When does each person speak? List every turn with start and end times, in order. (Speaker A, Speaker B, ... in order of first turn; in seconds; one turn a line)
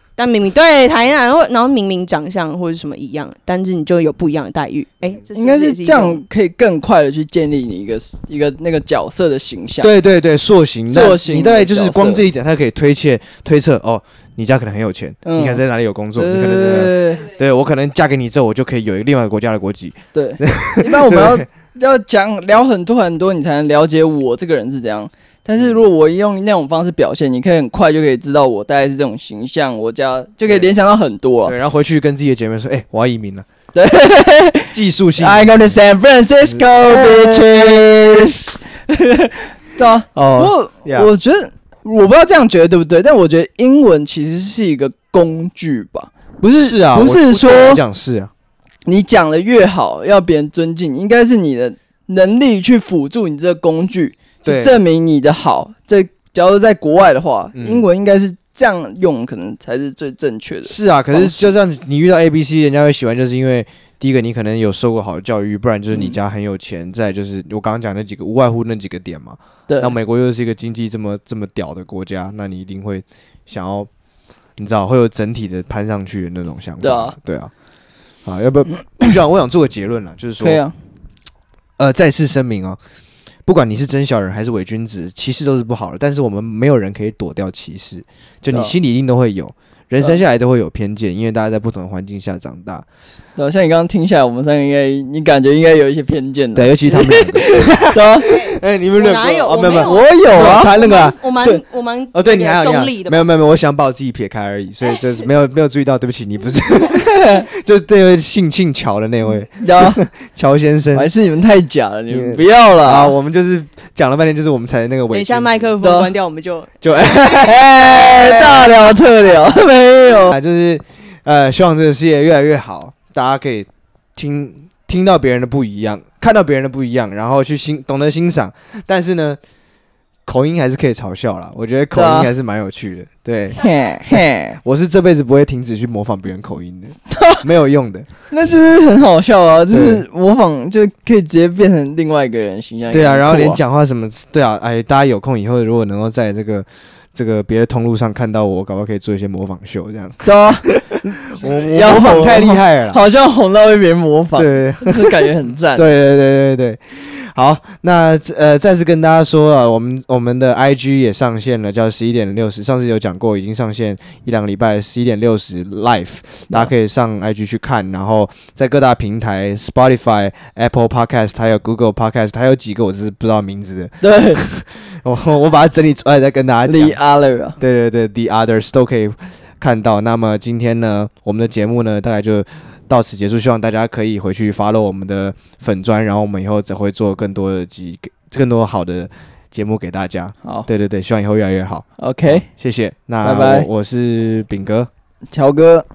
Speaker A: 0.2-6.2
Speaker B: 5.3-9.9
Speaker C: 9.8-21.5
Speaker B: 10.9-12.2
Speaker B: 15.2-15.6
Speaker B: 16.1-17.3
Speaker B: 20.1-31.6
Speaker C: 25.6-25.8
Speaker C: 31.4-33.5
Speaker B: 33.7-47.8
Speaker C: 34.7-35.6
Speaker C: 36.5-37.9
Speaker C: 40.1-41.1
Speaker C: 46.6-48.3
Speaker B: 48.9-61.5
Speaker C: 54.4-54.8
Speaker C: 57.5-57.9
Speaker C: 60.6-73.9
Speaker B: 65.9-66.2
Speaker B: 69.7-70.0
Speaker C: 74.6-77.5
Speaker B: 76.8-77.2
Speaker C: 78.2-80.6
Speaker B: 80.4-80.8
Speaker C: 81.8-82.8
Speaker C: 83.5-92.8
Speaker B: 93.4-98.4
Speaker C: 96.5-101.6
Speaker A: 98.2-103.3
Speaker B: 99.8-100.7
Speaker C: 102.1-111.1
Speaker B: 106.9-107.5
Speaker B: 109.6-110.0
Speaker B: 110.9-113.1
Speaker C: 112.1-115.7
Speaker A: 115.1-116.8
Speaker B: 115.8-116.1
Speaker C: 116.8-118.8
Speaker B: 117.0-120.4
Speaker C: 120.3-129.4
Speaker C: 130.3-138.1
Speaker B: 131.9-132.3
Speaker B: 133.6-134.6
Speaker B: 137.1-137.4
Speaker B: 138.3-143.6
Speaker C: 139.7-140.0
Speaker C: 142.9-153.0
Speaker B: 150.2-155.9
Speaker C: 154.4-177.0
Speaker B: 174.0-174.4
Speaker B: 176.7-177.6
Speaker C: 177.6-194.9
Speaker B: 192.0-192.4
Speaker B: 193.2-193.7
Speaker B: 195.3-195.9